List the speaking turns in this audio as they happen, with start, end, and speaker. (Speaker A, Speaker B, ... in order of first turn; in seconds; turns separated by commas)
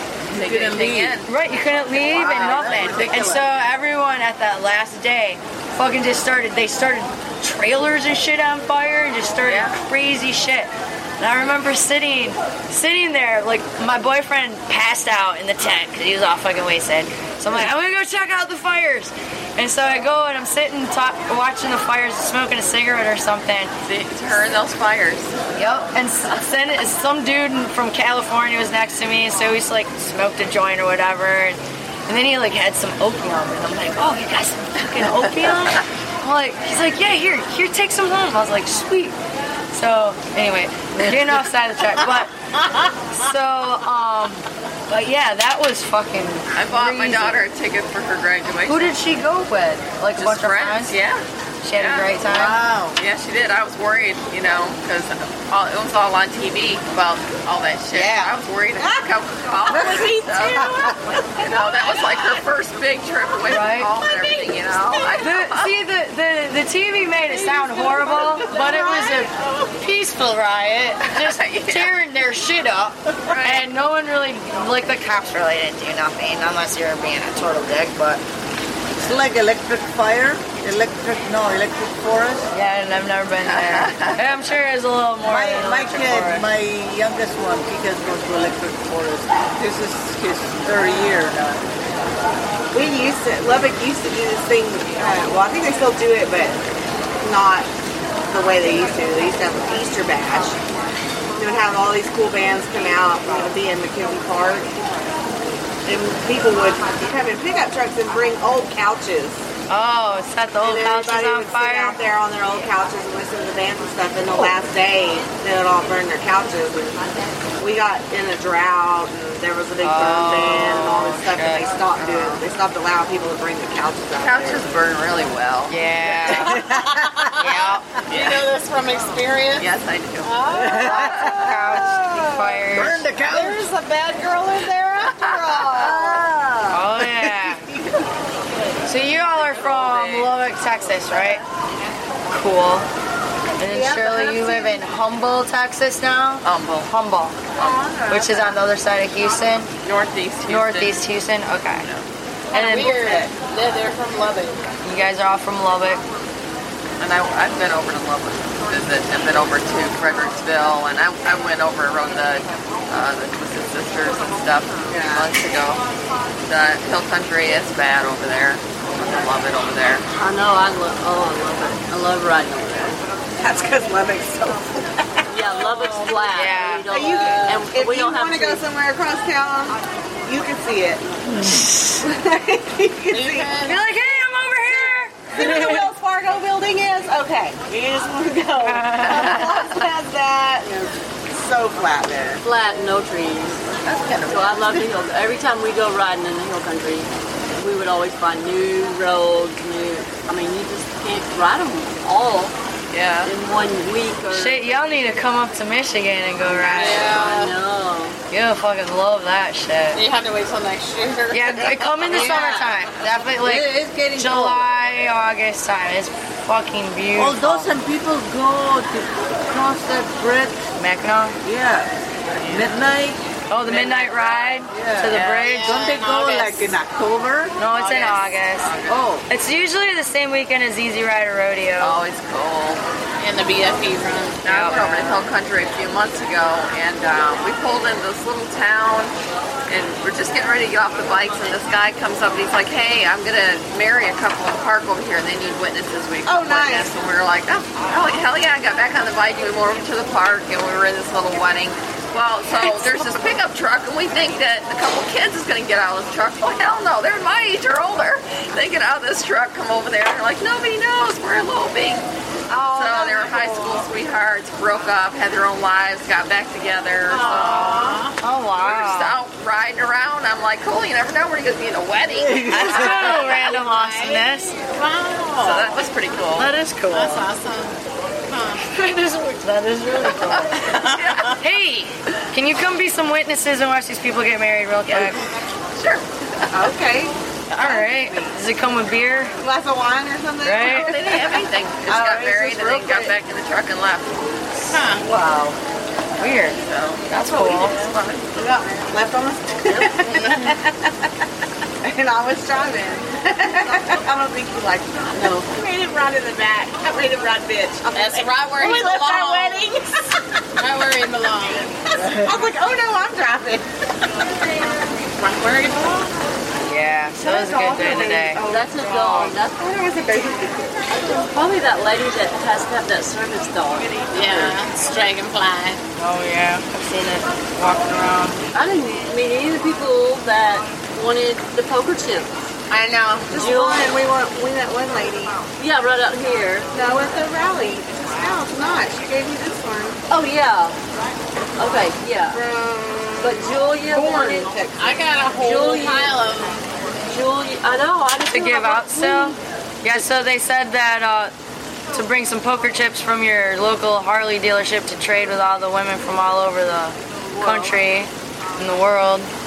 Speaker A: 0.3-1.3, Speaker B: 0.3-1.2, Speaker C: 1.3-23.7, Speaker B: 1.9-3.6, Speaker A: 9.4-9.7, Speaker A: 23.9-25.4, Speaker C: 25.6-39.1, Speaker A: 35.0-35.8, Speaker C: 39.7-42.3, Speaker C: 43.1-47.4, Speaker A: 46.5-48.9, Speaker C: 48.6-51.0, Speaker A: 50.2-51.2, Speaker C: 51.6-52.6, Speaker A: 51.8-52.2, Speaker B: 52.2-53.0, Speaker A: 52.9-60.7, Speaker B: 57.9-58.4, Speaker D: 58.8-59.0, Speaker D: 59.7-61.2, Speaker A: 61.4-65.8, Speaker C: 63.5-63.9, Speaker D: 64.0-64.7, Speaker C: 65.2-78.2, Speaker D: 67.7-69.7, Speaker A: 71.0-72.0, Speaker A: 73.2-73.7, Speaker B: 79.0-82.5, Speaker C: 82.5-86.5, Speaker A: 83.4-84.3, Speaker B: 85.2-91.6, Speaker D: 92.7-96.6, Speaker D: 97.2-97.7, Speaker D: 98.3-100.6, Speaker D: 101.4-104.7, Speaker D: 105.8-109.4, Speaker C: 109.7-112.0, Speaker D: 110.6-117.0, Speaker D: 117.6-124.7, Speaker C: 119.8-122.4, Speaker A: 124.2-125.8, Speaker C: 125.7-126.7, Speaker E: 126.1-127.5, Speaker B: 126.3-127.0, Speaker C: 127.3-127.9, Speaker E: 128.1-132.5, Speaker A: 129.6-130.4, Speaker B: 130.5-131.5, Speaker C: 130.8-133.1, Speaker A: 131.1-131.3, Speaker B: 132.7-133.7, Speaker E: 133.2-136.2, Speaker A: 135.3-135.7, Speaker D: 135.7-136.7, Speaker B: 136.1-137.6, Speaker C: 136.7-137.7, Speaker C: 138.9-141.4, Speaker A: 139.9-140.4, Speaker C: 142.3-142.9, Speaker C: 143.6-147.4, Speaker F: 143.7-144.8, Speaker A: 146.4-146.9, Speaker D: 147.6-148.6, Speaker C: 148.1-149.7, Speaker A: 149.8-151.0, Speaker C: 150.5-151.9, Speaker A: 151.8-152.1, Speaker C: 152.5-153.3, Speaker E: 152.5-154.7, Speaker C: 154.8-156.0, Speaker A: 157.0-165.8, Speaker D: 164.9-165.3, Speaker A: 166.5-170.1, Speaker F: 170.2-173.0, Speaker D: 173.4-175.2, Speaker F: 175.3-178.7, Speaker C: 176.3-176.9, Speaker D: 176.9-181.0, Speaker C: 181.3-182.0, Speaker D: 182.0-183.6, Speaker E: 183.1-183.8, Speaker C: 183.7-185.9, Speaker D: 184.7-192.4, Speaker C: 188.6-189.5, Speaker F: 192.4-193.7, Speaker D: 193.8-194.9, Speaker F: 194.3-202.6, Speaker A: 202.9-203.3, Speaker F: 203.2-204.8, Speaker C: 204.3-207.2, Speaker F: 206.4-208.2, Speaker E: 206.7-207.6, Speaker C: 208.3-210.0, Speaker E: 209.9-212.4, Speaker C: 211.3-217.7, Speaker F: 212.1-212.8, Speaker B: 213.4-214.7, Speaker B: 217.2-220.7, Speaker C: 220.8-221.4, Speaker B: 221.4-221.9, Speaker B: 222.4-223.2, Speaker C: 223.5-225.9, Speaker E: 223.7-224.5, Speaker B: 224.7-227.6, Speaker E: 225.1-226.8, Speaker C: 227.6-228.7, Speaker A: 227.6-229.2, Speaker B: 228.9-229.3, Speaker C: 229.3-232.0, Speaker A: 231.8-232.8, Speaker E: 233.2-235.1, Speaker C: 234.4-235.2, Speaker A: 234.4-239.2, Speaker A: 239.7-262.1, Speaker D: 246.3-246.9, Speaker C: 262.5-263.9, Speaker A: 262.6-267.9, Speaker E: 267.1-268.2, Speaker C: 267.2-269.2, Speaker A: 268.6-273.5, Speaker B: 272.2-272.8, Speaker C: 272.4-274.6, Speaker E: 272.7-275.8, Speaker A: 275.4-276.5, Speaker C: 276.4-277.3, Speaker E: 276.9-278.8, Speaker C: 278.6-285.2, Speaker A: 280.2-281.4, Speaker A: 284.9-285.2, Speaker A: 285.8-286.7, Speaker D: 286.5-288.4, Speaker C: 287.5-289.3, Speaker D: 289.4-293.2, Speaker C: 290.4-290.9, Speaker A: 290.6-294.8, Speaker E: 294.7-295.0, Speaker D: 294.7-295.6, Speaker C: 296.2-296.6, Speaker A: 296.6-298.3, Speaker C: 297.1-297.8, Speaker D: 298.4-301.0, Speaker F: 299.6-300.2, Speaker E: 300.3-300.5, Speaker D: 301.8-310.1, Speaker F: 305.2-305.5, Speaker E: 307.9-309.7, Speaker E: 310.6-311.7, Speaker D: 311.9-313.7, Speaker B: 312.0-312.5, Speaker E: 315.2-316.1, Speaker C: 316.6-318.4, Speaker D: 317.2-320.8, Speaker F: 318.4-319.6, Speaker F: 320.9-324.5, Speaker E: 324.1-325.8, Speaker C: 326.0-328.4, Speaker F: 328.5-332.5, Speaker E: 332.7-333.4, Speaker D: 333.3-335.4, Speaker F: 333.4-333.9, Speaker F: 335.6-336.7, Speaker D: 336.7-340.0, Speaker F: 340.1-340.8, Speaker F: 341.6-342.4, Speaker D: 342.3-345.0, Speaker F: 343.2-344.5, Speaker E: 344.1-346.6, Speaker F: 345.2-346.3, Speaker F: 347.1-349.4, Speaker C: 348.3-351.3, Speaker C: 351.9-359.3, Speaker F: 357.2-357.8